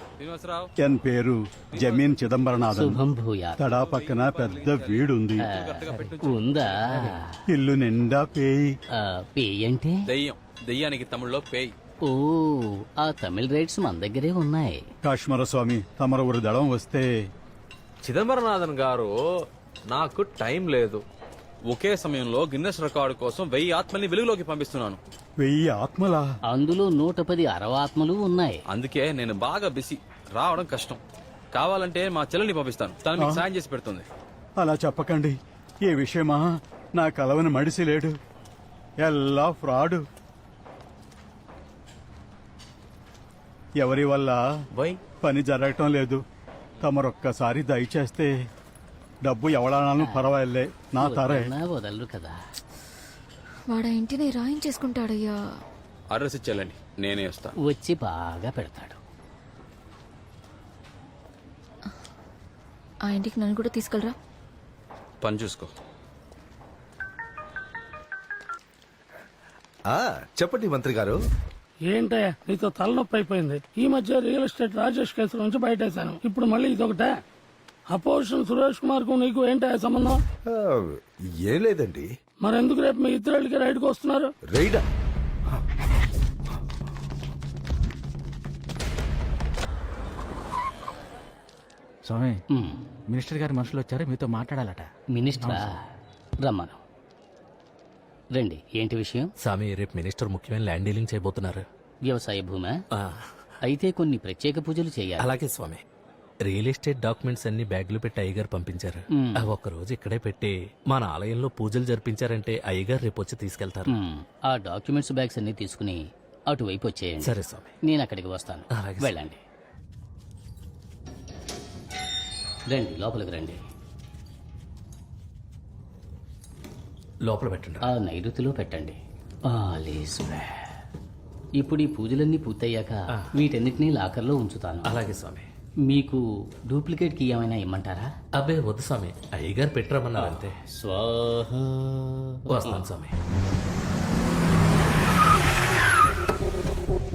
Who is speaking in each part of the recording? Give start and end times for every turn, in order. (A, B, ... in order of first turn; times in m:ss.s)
0:00.2-0:00.7 A
0:00.8-0:03.0 B
0:01.7-0:02.3 A
0:02.6-0:03.6 C
0:03.6-0:05.4 B
0:03.7-0:07.1 A
0:05.4-0:07.4 C
0:07.5-0:08.7 B
0:09.0-0:10.0 C
0:10.1-0:11.7 A
0:12.1-0:14.8 C
0:15.0-0:17.1 B
0:18.0-0:19.2 A
0:19.9-0:21.0 A
0:21.7-0:25.0 A
0:25.4-0:26.2 B
0:26.5-0:28.6 C
0:28.7-0:31.0 A
0:31.5-0:34.0 A
0:33.2-0:33.4 B
0:34.6-0:36.4 B
0:37.0-0:38.2 B
0:39.0-0:40.0 B
0:43.8-0:44.4 B
0:44.7-0:45.0 A
0:45.2-0:46.2 B
0:46.8-0:48.3 B
0:49.2-0:51.5 B
0:50.0-0:50.2 C
0:51.0-0:52.4 C
0:53.7-0:55.4 D
0:56.1-0:57.5 A
0:57.6-0:59.0 C
1:03.1-1:04.1 D
1:05.2-1:05.7 A
1:09.9-1:11.2 E
1:11.9-1:17.2 F
1:17.9-1:20.2 F
1:20.5-1:22.1 E
1:22.4-1:24.3 F
1:24.5-1:24.8 E
1:32.0-1:32.4 G
1:32.5-1:32.8 C
1:33.1-1:34.9 G
1:35.1-1:35.8 C
1:35.4-1:35.7 G
1:36.4-1:36.8 C
1:38.3-1:39.3 C
1:39.4-1:41.6 H
1:42.1-1:42.8 C
1:43.7-1:45.3 C
1:45.2-1:45.8 H
1:46.4-1:53.9 H
1:49.2-1:49.5 C
1:53.9-1:56.0 C
1:56.5-1:57.3 C
1:57.2-1:57.7 H
1:57.8-1:59.4 C
1:58.7-1:59.1 H
2:02.7-2:03.6 C
2:07.2-2:07.8 H
2:07.8-2:09.0 C
2:09.5-2:10.5 C
2:11.6-2:15.0 C
2:14.9-2:15.5 H
2:15.9-2:18.1 C
2:18.4-2:20.6 H
2:20.2-2:21.3 C
2:21.5-2:21.8 H
2:22.5-2:23.2 H
2:22.5-2:22.8 C